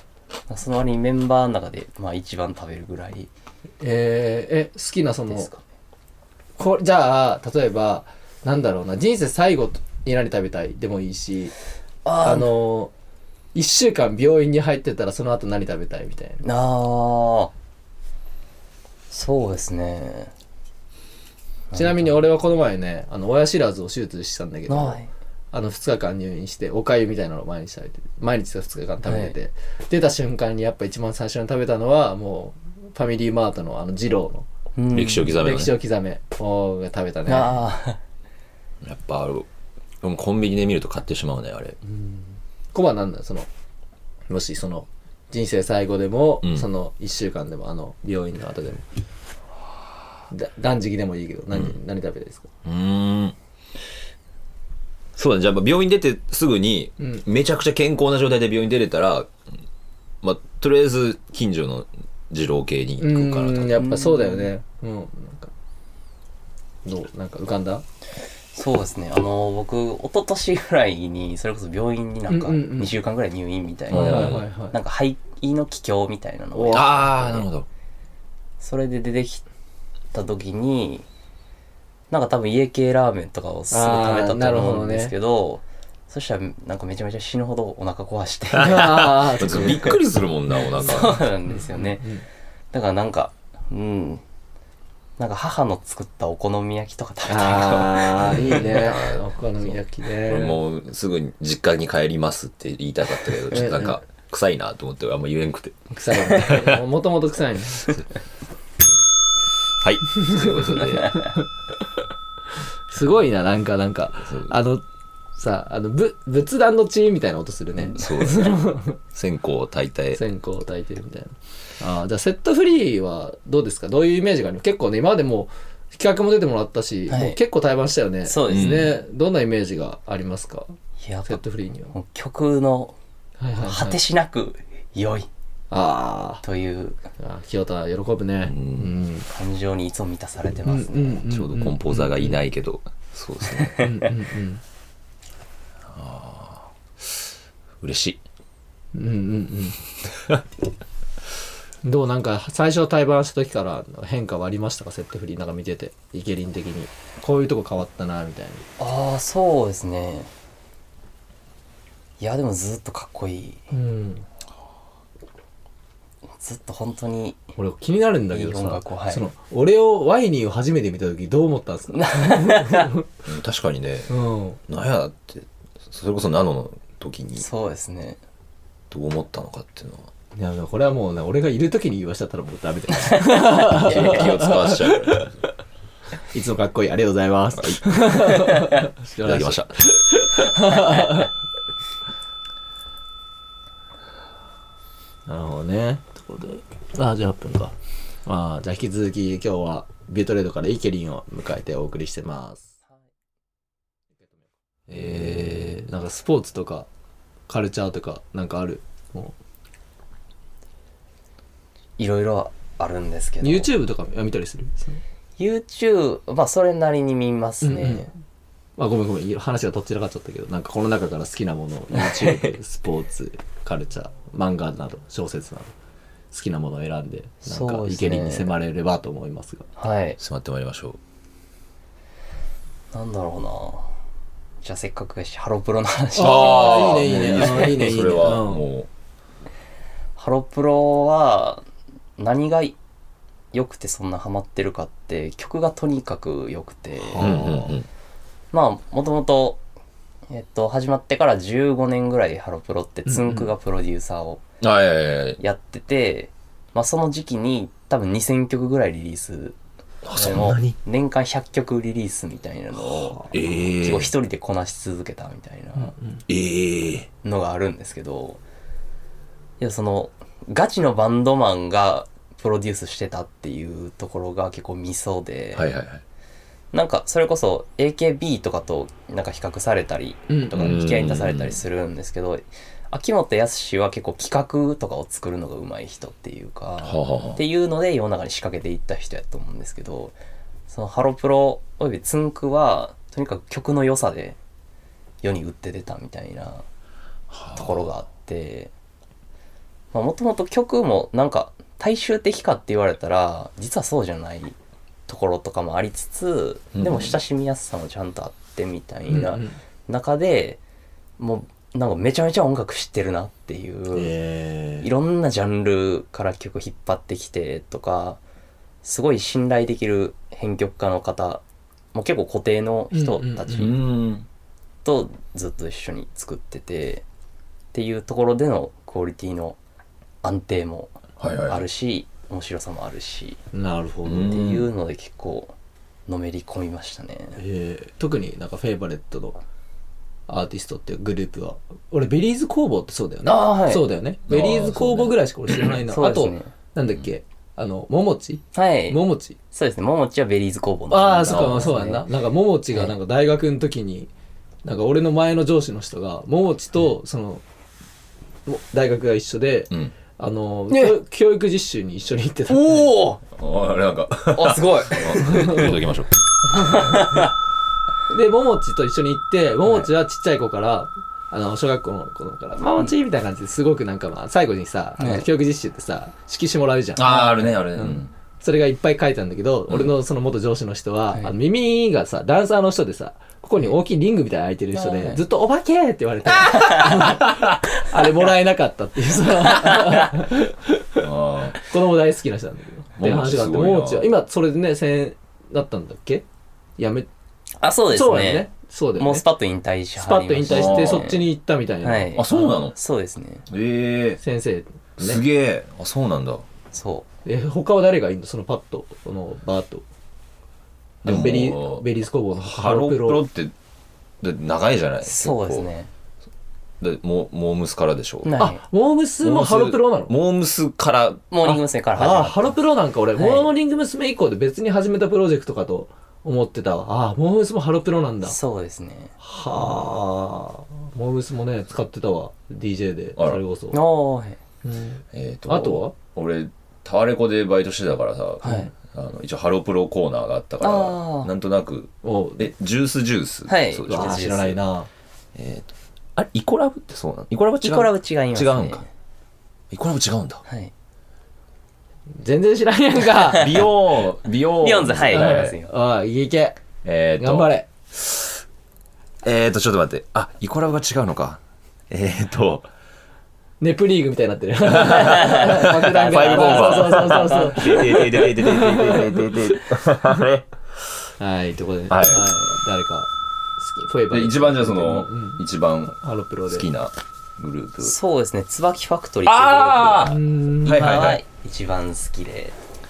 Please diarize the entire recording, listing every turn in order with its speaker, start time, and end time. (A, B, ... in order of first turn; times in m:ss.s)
0:00.5-0:03.3 A
0:03.8-0:05.5 B
0:05.3-0:05.6 A
0:06.6-0:11.5 B
0:12.0-0:12.5 A
0:12.2-0:12.9 B
0:13.5-0:16.4 B
0:16.4-0:17.5 A
0:19.1-0:20.3 A
0:21.7-0:22.1 A
0:21.7-0:34.4 B
0:24.7-0:25.1 A
0:29.0-0:29.3 A
0:34.8-0:35.4 A
0:34.9-0:35.7 C
0:35.2-0:37.6 B
0:37.3-0:38.0 A
0:38.8-0:39.5 C
0:40.0-0:41.8 C
0:41.9-0:42.2 B
0:42.7-0:43.5 B
0:44.3-0:48.8 B
0:50.3-0:52.5 B
0:52.6-0:53.4 C
0:55.2-0:59.3 C
1:00.2-1:03.8 C
1:03.0-1:05.5 B
1:03.8-1:04.5 A
1:06.8-1:07.8 B
1:08.5-1:17.4 A
1:12.3-1:12.9 B
1:13.9-1:14.5 C
1:13.9-1:14.8 B
1:16.5-1:17.1 B
1:16.7-1:17.7 C
1:18.6-1:19.4 A
1:20.1-1:21.0 A
1:22.1-1:29.6 A
1:23.7-1:25.1 B
1:28.5-1:31.2 C
1:28.6-1:30.0 B
1:30.7-1:32.1 A
1:31.5-1:32.2 B
1:32.7-1:34.2 A
1:35.2-1:38.9 A
1:37.3-1:40.6 B
1:38.2-1:39.2 C
1:40.2-1:46.8 C
1:43.4-1:44.0 B
1:45.9-1:48.0 B
1:49.8-1:51.2 C
1:50.2-1:51.4 B
1:52.9-1:54.8 B
1:54.3-1:54.5 C
1:55.4-1:59.0 B
1:57.9-2:00.2 C
2:00.1-2:10.7 B
2:07.1-2:07.4 A
2:08.2-2:08.9 A
2:08.5-2:08.9 C
2:11.0-2:12.9 A
2:11.2-2:11.9 B
2:13.4-2:14.0 B
2:13.6-2:15.3 A
2:15.7-2:16.4 B
2:16.4-2:17.0 A
2:17.2-2:19.3 B
2:18.4-2:18.9 C
2:19.3-2:21.3 A
2:20.6-2:22.4 B
2:21.2-2:23.9 C
2:23.5-2:24.1 A
2:23.8-2:24.6 B
2:25.9-2:27.3 C
2:27.8-2:28.2 C
2:28.9-2:29.8 B
2:31.8-2:38.6 B
2:38.8-2:40.3 A
2:42.2-2:43.7 A
2:43.7-2:44.2 B
2:46.4-2:47.4 A
2:47.6-2:53.1 B
2:48.3-2:49.2 A
2:51.9-2:52.9 A
2:53.2-2:54.1 C
2:54.1-2:54.6 B
2:54.7-2:57.4 C
2:57.4-2:58.2 A
2:58.9-3:00.1 C
3:00.3-3:05.3 B
3:03.3-3:04.2 A
3:03.6-3:05.3 C
3:06.3-3:11.3 B
3:07.6-3:08.5 C
3:09.2-3:09.7 C
3:15.3-3:17.7 B
3:18.2-3:22.7 B
3:24.9-3:26.9 B
3:24.9-3:25.7 C
3:27.5-3:29.3 B
3:32.0-3:33.7 A
3:33.4-3:35.0 B
3:35.4-3:38.1 A
3:37.6-3:38.1 B
3:38.8-3:45.7 B
3:41.9-3:42.5 A
3:46.3-3:49.7 B
3:47.4-3:48.5 A
3:49.8-3:50.2 A
3:50.2-3:51.0 C
3:52.9-3:53.9 A
3:54.6-3:57.8 A
3:56.2-3:58.6 B
3:56.2-3:58.9 C
4:00.2-4:01.6 A
4:02.2-4:02.8 A
4:03.5-4:07.4 A
4:07.0-4:07.8 B
4:07.2-4:07.9 C
4:08.5-4:09.6 A
4:10.3-4:14.4 A
4:13.1-4:13.4 B
4:14.6-4:15.4 C
4:15.4-4:19.6 A
4:20.0-4:20.8 C
4:20.1-4:26.0 A
4:23.0-4:23.3 B
4:23.3-4:24.1 C
4:25.8-4:26.2 B
4:26.3-4:27.1 C
4:27.2-4:28.4 A
4:29.6-4:35.7 A
4:35.5-4:36.0 C
4:36.7-4:50.1 A
4:40.3-4:40.7 B
4:40.5-4:41.6 C
4:46.8-4:47.4 C
4:50.7-4:54.4 A
4:55.2-4:56.6 A
4:57.3-4:57.8 C
4:57.5-4:58.7 A
4:59.9-5:04.6 A
5:05.1-5:10.6 A
5:06.7-5:07.2 C
5:09.1-5:09.6 B
5:11.2-5:14.1 A
5:13.9-5:14.9 B
5:14.8-5:18.2 A
5:18.8-5:21.4 A
5:21.9-5:23.8 A
5:22.9-5:23.8 B
5:23.5-5:24.3 C
5:24.8-5:27.0 A
5:27.7-5:29.6 A
5:30.2-5:33.4 A
5:31.2-5:31.6 C
5:33.5-5:34.6 B
5:34.0-5:34.6 C
5:34.2-5:35.5 A
5:36.1-5:37.4 A
5:37.4-5:39.4 B
5:40.3-5:49.4 B
5:43.2-5:43.8 A
5:44.3-5:45.7 C
5:45.9-5:46.5 A
5:48.5-5:49.0 A
5:49.5-5:52.0 A
5:50.9-5:54.1 B
5:51.2-5:51.8 C
5:54.6-5:57.4 B
5:58.4-6:02.9 B
6:02.5-6:06.1 C
6:02.7-6:03.1 A
6:04.3-6:05.7 A
6:05.2-6:05.8 B
6:06.5-6:07.3 A
6:06.6-6:07.2 B
6:08.1-6:36.2 B
6:15.0-6:15.2 A
6:16.9-6:18.1 C
6:24.7-6:25.2 A
6:26.4-6:27.1 A
6:29.5-6:30.1 A
6:31.0-6:31.6 C
6:33.0-6:34.1 C
6:36.8-6:37.1 B
6:37.6-6:41.3 A
6:37.9-6:39.2 B
6:40.0-6:42.6 B
6:40.5-6:41.1 C
6:41.8-6:43.5 A
6:42.2-6:42.8 C
6:43.5-6:44.2 C
6:44.2-6:45.2 B
6:45.0-6:46.4 C
6:46.7-6:47.1 A
6:47.2-6:49.8 B
6:51.0-6:51.8 C
6:51.0-6:53.2 B
6:52.4-6:53.5 C
6:54.2-6:55.7 C
6:55.0-6:55.9 A
6:56.8-6:58.4 C
6:58.2-6:58.6 A
6:58.4-7:00.1 B
6:59.2-7:01.2 C
7:01.3-7:02.6 A
7:01.5-7:08.4 B
7:03.1-7:03.5 A
7:08.2-7:09.1 A
7:09.2-7:13.8 B
7:13.2-7:13.4 C
7:13.7-7:14.4 A
7:14.6-7:15.9 B
7:15.1-7:24.6 C
7:18.4-7:18.7 A
7:20.6-7:21.3 A
7:22.0-7:22.5 B
7:23.5-7:24.6 A
7:23.9-7:24.9 B
7:25.3-7:28.8 C
7:27.6-7:28.9 A
7:29.7-7:30.4 C
7:30.4-7:30.7 A
7:32.2-7:33.6 B
7:33.3-7:35.5 C
7:34.6-7:35.7 A
7:35.1-7:36.6 B
7:36.8-7:38.4 C
7:37.2-7:37.7 B
7:39.2-7:42.7 C
7:43.6-7:49.4 B
7:44.6-7:50.5 C
7:46.0-7:48.3 A
7:51.2-7:56.7 B
7:51.9-7:52.3 C
7:54.1-7:56.0 C
7:56.5-7:57.9 C
7:57.8-8:02.5 A
7:59.2-8:01.2 C
8:00.0-8:00.9 B